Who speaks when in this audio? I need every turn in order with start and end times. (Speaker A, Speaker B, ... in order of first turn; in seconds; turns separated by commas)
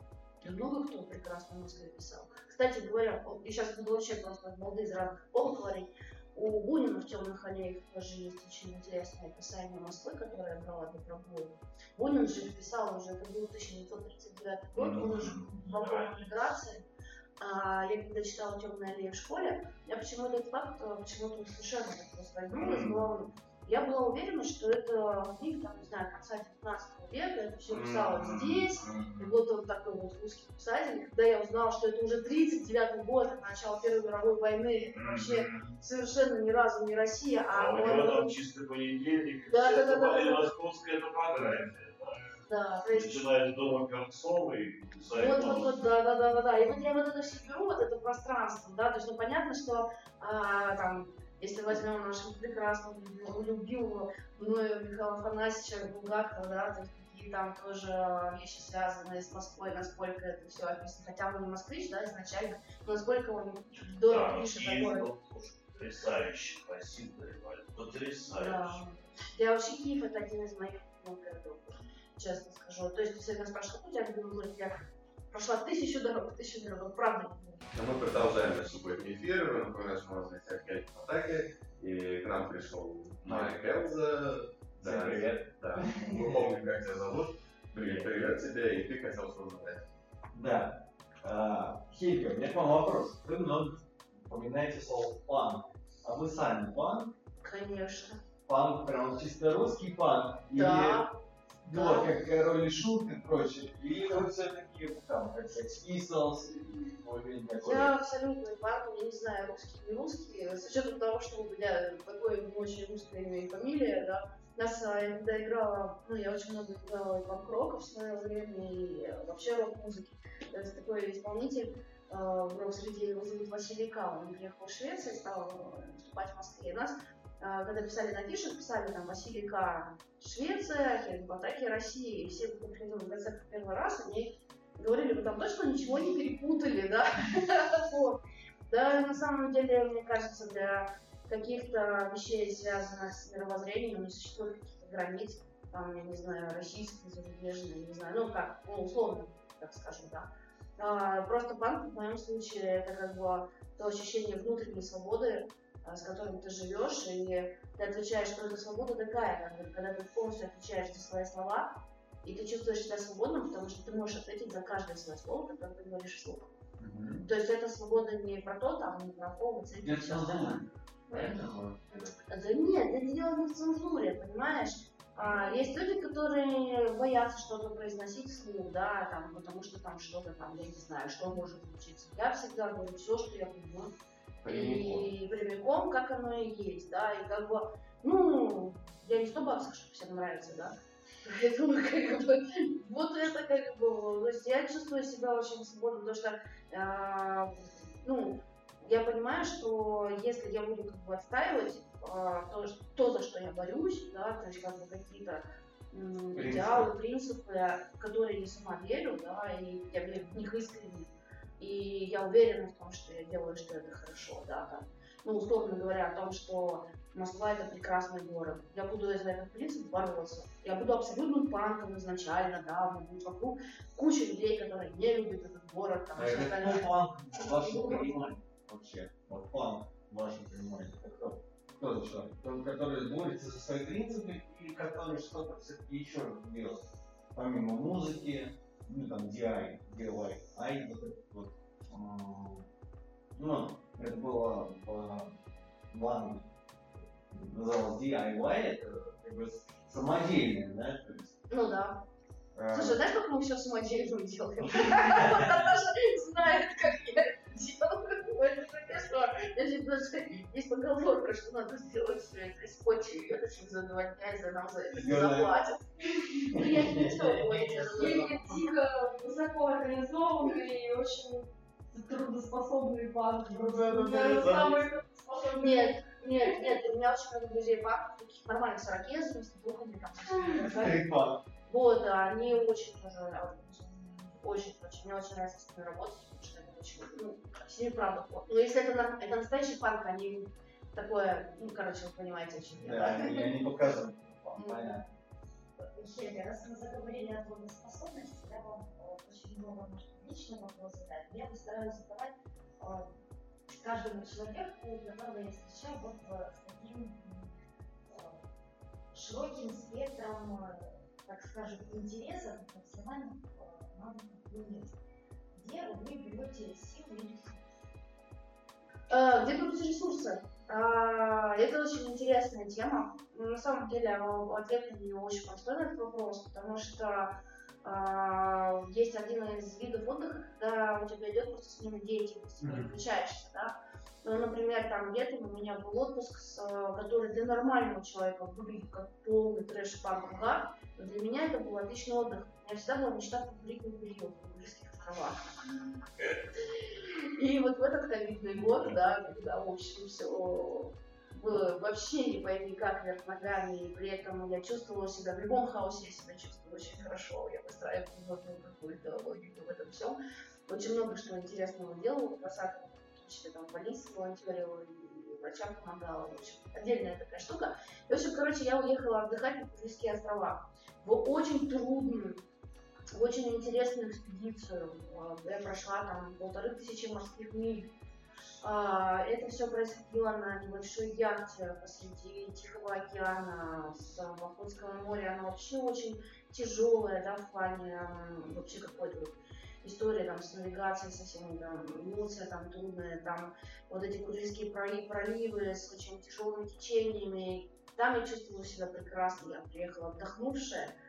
Speaker A: 0.4-16.8, Speaker B: 14.7-16.2, Speaker A: 17.4-38.4, Speaker B: 22.5-23.1, Speaker B: 27.7-29.3, Speaker B: 34.9-35.7, Speaker B: 37.5-42.4, Speaker A: 39.5-40.5, Speaker A: 42.5-43.2, Speaker B: 42.9-45.7, Speaker A: 45.1-65.1, Speaker B: 63.8-68.8, Speaker A: 68.3-77.7, Speaker C: 77.7-89.8, Speaker D: 83.2-83.5, Speaker D: 84.8-86.4, Speaker D: 87.8-88.1, Speaker D: 90.3-97.1, Speaker A: 97.4-98.2, Speaker D: 98.5-101.0, Speaker A: 100.5-101.2, Speaker D: 101.6-107.9, Speaker A: 101.7-102.1, Speaker A: 107.6-161.7, Speaker A: 162.2-166.5, Speaker D: 166.8-167.3, Speaker A: 167.2-171.3, Speaker D: 169.8-172.1, Speaker A: 172.2-183.9, Speaker D: 184.4-185.1, Speaker A: 184.5-228.3, Speaker D: 206.3-206.9, Speaker D: 226.2-242.7, Speaker D: 243.3-245.4, Speaker D: 245.9-246.5, Speaker D: 247.3-251.3, Speaker A: 251.5-252.0, Speaker D: 252.5-253.0, Speaker A: 252.7-268.5, Speaker D: 264.9-265.5, Speaker E: 266.2-266.6, Speaker D: 266.5-268.4, Speaker E: 267.9-276.7, Speaker D: 273.7-274.7, Speaker A: 275.6-281.0, Speaker D: 280.5-281.4, Speaker A: 281.6-293.5, Speaker D: 292.8-295.0, Speaker A: 294.6-295.0, Speaker F: 295.8-303.1, Speaker F: 303.7-308.4, Speaker F: 309.1-315.0, Speaker F: 315.5-317.6, Speaker A: 319.1-345.6, Speaker D: 332.6-332.9, Speaker A: 347.2-372.4, Speaker A: 373.1-377.9, Speaker A: 378.6-400.9